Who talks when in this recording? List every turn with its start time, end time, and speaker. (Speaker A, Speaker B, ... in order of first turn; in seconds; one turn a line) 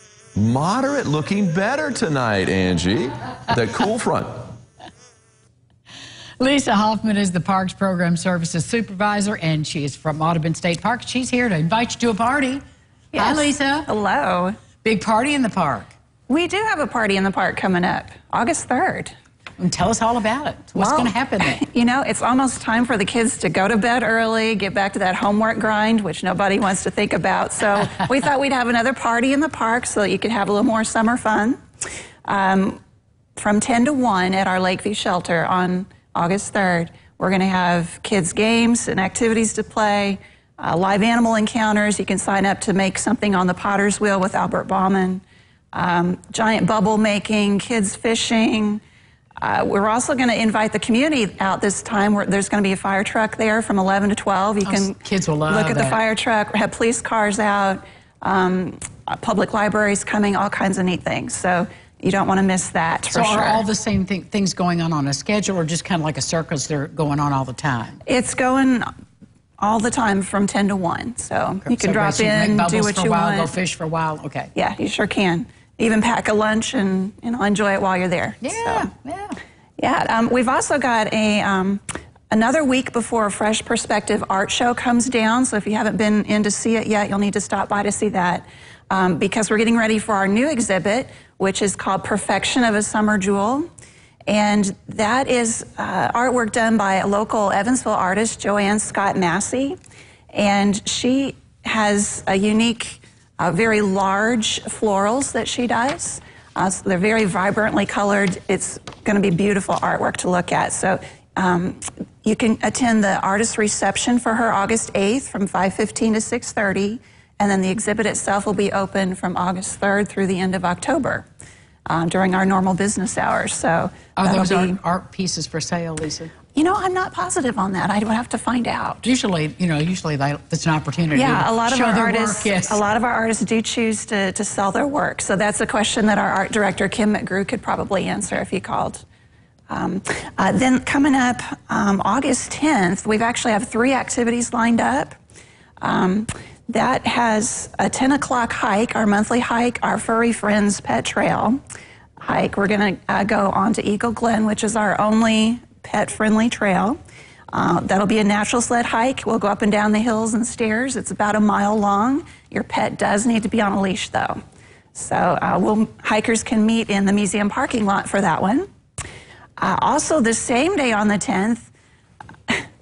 Speaker A: 0.4-4.4
Speaker B: 6.4-12.6
Speaker C: 13.1-14.6
Speaker B: 13.2-13.9
Speaker B: 14.8-15.9
Speaker C: 16.3-19.1
Speaker B: 19.6-21.6
Speaker C: 20.8-31.6
Speaker C: 32.3-32.8
Speaker C: 33.4-45.2
Speaker C: 45.7-48.8
Speaker C: 49.4-63.6
Speaker B: 54.6-56.0
Speaker B: 63.1-68.0
Speaker C: 68.1-68.9
Speaker C: 69.6-73.5
Speaker B: 71.7-74.5
Speaker C: 74.5-78.9
Speaker B: 78.4-79.4
Speaker C: 79.8-93.7
Speaker C: 94.3-99.8
Speaker C: 100.3-121.2
Speaker C: 121.9-124.8
Speaker B: 124.2-126.3
Speaker C: 126.5-129.1
Speaker B: 129.0-132.8
Speaker C: 131.1-139.0
Speaker C: 139.7-145.2
Speaker C: 145.8-151.6
Speaker C: 152.2-157.0
Speaker C: 157.5-164.4
Speaker C: 164.9-168.7
Speaker C: 169.6-171.7